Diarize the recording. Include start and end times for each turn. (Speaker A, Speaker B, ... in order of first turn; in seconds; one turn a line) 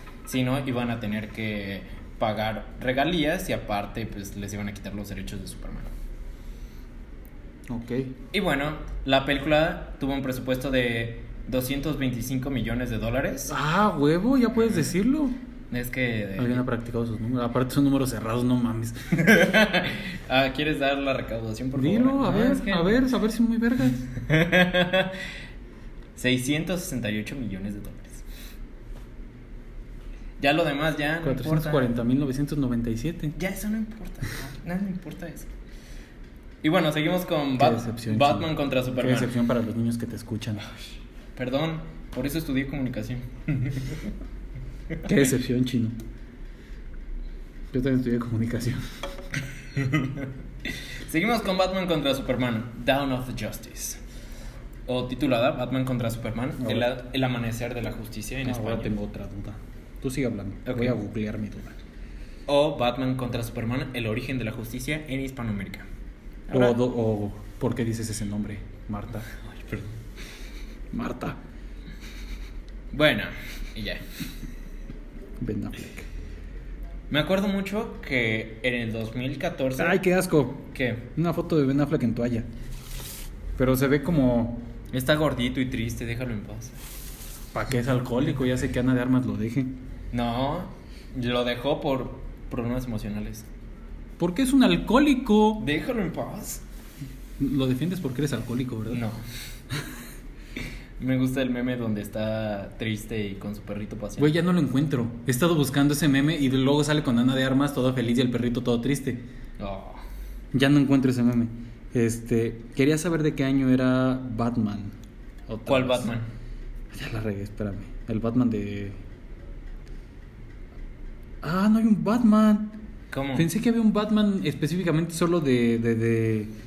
Speaker A: 0.3-5.9
Speaker B: 7.7-8.1
Speaker A: 8.3-13.6
Speaker B: 13.5-15.4
Speaker A: 14.6-14.9
Speaker A: 15.7-16.6
Speaker B: 16.4-19.2
Speaker A: 19.1-23.0
Speaker B: 21.8-24.1
Speaker A: 24.1-25.2
Speaker A: 26.2-28.2
Speaker A: 30.4-31.9
Speaker B: 31.2-33.4
Speaker A: 33.4-35.5
Speaker A: 36.6-39.3
Speaker B: 37.6-40.6
Speaker A: 41.4-44.1
Speaker B: 45.0-46.0
Speaker B: 47.7-48.8
Speaker A: 49.8-54.0
Speaker A: 54.9-58.9
Speaker B: 56.6-56.9
Speaker B: 58.5-61.8
Speaker A: 60.7-61.0
Speaker A: 62.5-65.9
Speaker A: 66.5-66.8
Speaker B: 66.5-69.3
Speaker A: 69.4-69.9
Speaker B: 70.9-71.4
Speaker A: 72.9-74.0
Speaker B: 75.4-76.1
Speaker A: 77.1-80.0
Speaker B: 79.8-82.5
Speaker A: 80.7-81.0
Speaker B: 83.6-84.7
Speaker A: 84.9-86.8
Speaker B: 87.5-89.8
Speaker A: 90.1-93.5
Speaker B: 94.2-95.7
Speaker A: 95.6-96.6
Speaker B: 97.4-99.0
Speaker A: 98.9-99.2
Speaker A: 101.0-104.3
Speaker B: 104.2-109.2
Speaker A: 109.6-110.0
Speaker B: 110.5-115.0
Speaker B: 115.5-116.1
Speaker A: 115.7-116.3
Speaker B: 116.9-119.0
Speaker B: 121.4-122.8
Speaker A: 123.1-123.5
Speaker B: 123.3-126.5